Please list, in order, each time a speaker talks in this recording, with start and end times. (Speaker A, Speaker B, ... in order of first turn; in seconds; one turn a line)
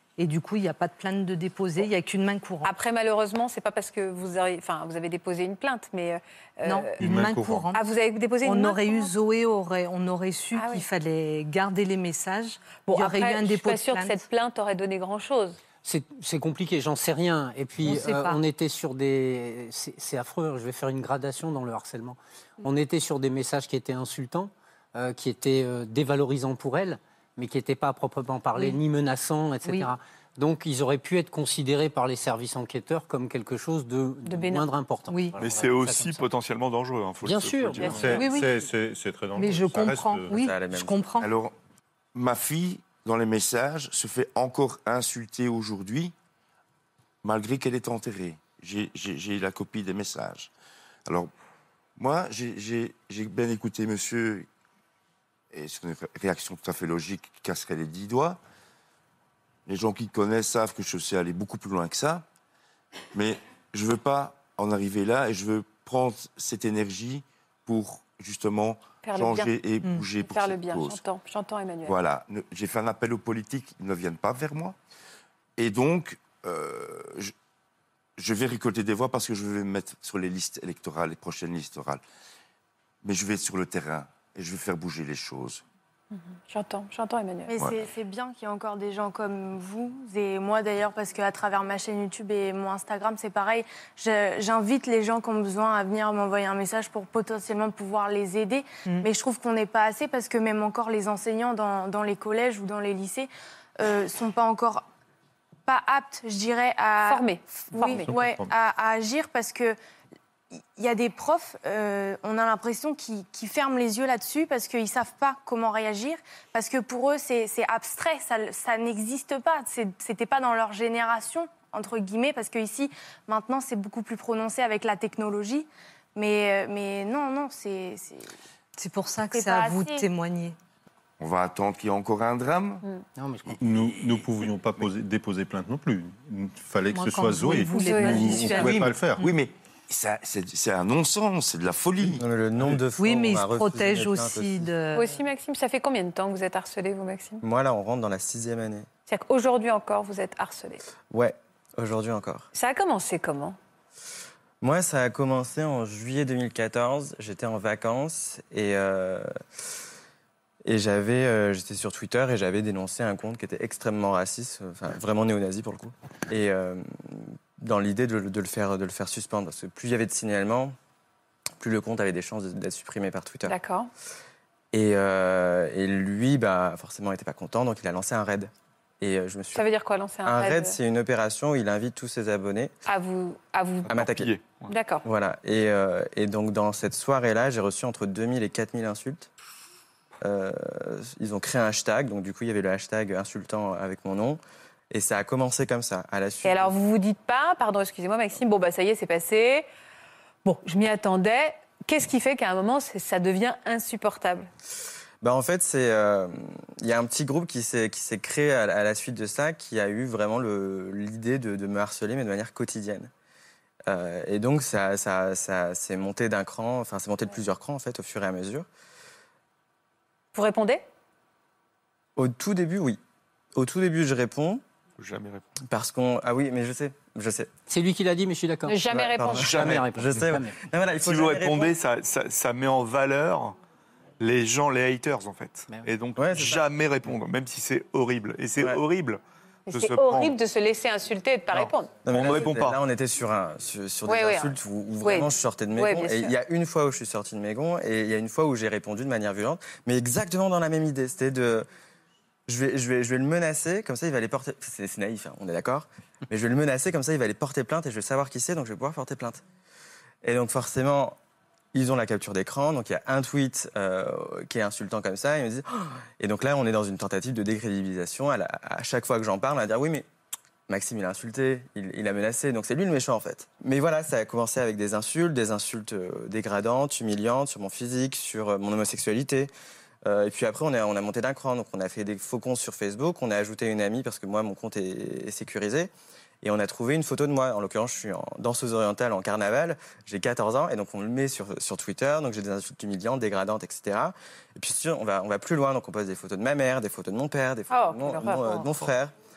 Speaker A: 0.2-2.7
Speaker B: 2.6-7.0
Speaker A: 6.6-7.8
Speaker C: 7.0-7.7
Speaker B: 7.7-9.1
Speaker A: 8.4-14.2
Speaker B: 10.6-10.9
Speaker B: 12.8-15.6
Speaker D: 15.8-36.3
Speaker A: 17.8-18.4
Speaker A: 29.6-29.9
Speaker B: 34.2-34.7
Speaker A: 35.1-35.4
Speaker E: 35.4-38.1
Speaker D: 37.2-38.2
Speaker B: 37.8-38.2
Speaker C: 37.9-40.4
Speaker A: 38.0-38.7
Speaker A: 39.4-41.3
Speaker F: 40.3-41.0
Speaker G: 41.2-41.5
Speaker G: 42.1-46.1
Speaker G: 47.2-50.5
Speaker G: 52.0-54.5
Speaker G: 55.5-58.4
Speaker G: 59.7-62.2
Speaker G: 63.1-71.0
Speaker B: 69.0-69.5
Speaker B: 70.2-72.0
Speaker G: 71.8-74.8
Speaker G: 75.6-77.3
Speaker G: 78.2-82.0
Speaker G: 83.0-85.6
Speaker B: 86.1-87.5
Speaker H: 87.5-104.8
Speaker H: 105.7-109.8
Speaker B: 107.0-108.1
Speaker C: 108.0-108.5
Speaker H: 110.8-128.3
Speaker A: 128.8-130.6
Speaker H: 129.3-130.0
Speaker G: 131.2-132.8
Speaker D: 133.2-133.9
Speaker C: 133.6-139.2
Speaker A: 136.9-138.9
Speaker B: 137.7-138.7
Speaker G: 138.1-142.2
Speaker F: 142.2-144.7
Speaker C: 142.6-142.8
Speaker A: 143.0-145.1
Speaker B: 144.9-147.4
Speaker F: 147.4-148.9
Speaker B: 149.1-150.8
Speaker F: 151.1-152.5
Speaker B: 152.5-153.6
Speaker F: 154.6-159.3
Speaker F: 160.6-170.8
Speaker F: 171.6-173.6
Speaker B: 173.4-173.9
Speaker F: 174.7-179.7
Speaker B: 179.6-180.8
Speaker F: 180.2-182.7
Speaker B: 182.9-183.9
Speaker E: 183.9-184.7
Speaker F: 183.9-184.3
Speaker B: 184.7-185.1
Speaker F: 185.0-189.3
Speaker F: 190.2-194.4
Speaker F: 194.9-196.7
Speaker B: 196.4-199.7
Speaker B: 200.4-204.5
Speaker F: 205.2-213.1
Speaker F: 213.9-218.7
Speaker B: 220.3-220.8
Speaker F: 222.2-223.0
Speaker F: 223.6-224.6
Speaker E: 225.0-225.5
Speaker F: 225.7-227.5
Speaker D: 227.7-228.8
Speaker B: 228.7-229.6
Speaker F: 228.9-231.8
Speaker D: 229.3-230.6
Speaker E: 229.5-229.8
Speaker E: 231.0-233.6
Speaker E: 234.2-239.2
Speaker D: 235.7-236.5
Speaker F: 236.2-236.6
Speaker B: 239.7-241.9
Speaker E: 239.7-240.4
Speaker E: 241.5-242.8
Speaker F: 242.1-251.7
Speaker B: 244.1-246.3
Speaker F: 252.5-259.4
Speaker F: 260.2-261.2
Speaker F: 261.7-270.1
Speaker F: 270.7-279.5
Speaker F: 280.1-285.9
Speaker F: 286.4-299.1
Speaker B: 297.7-298.7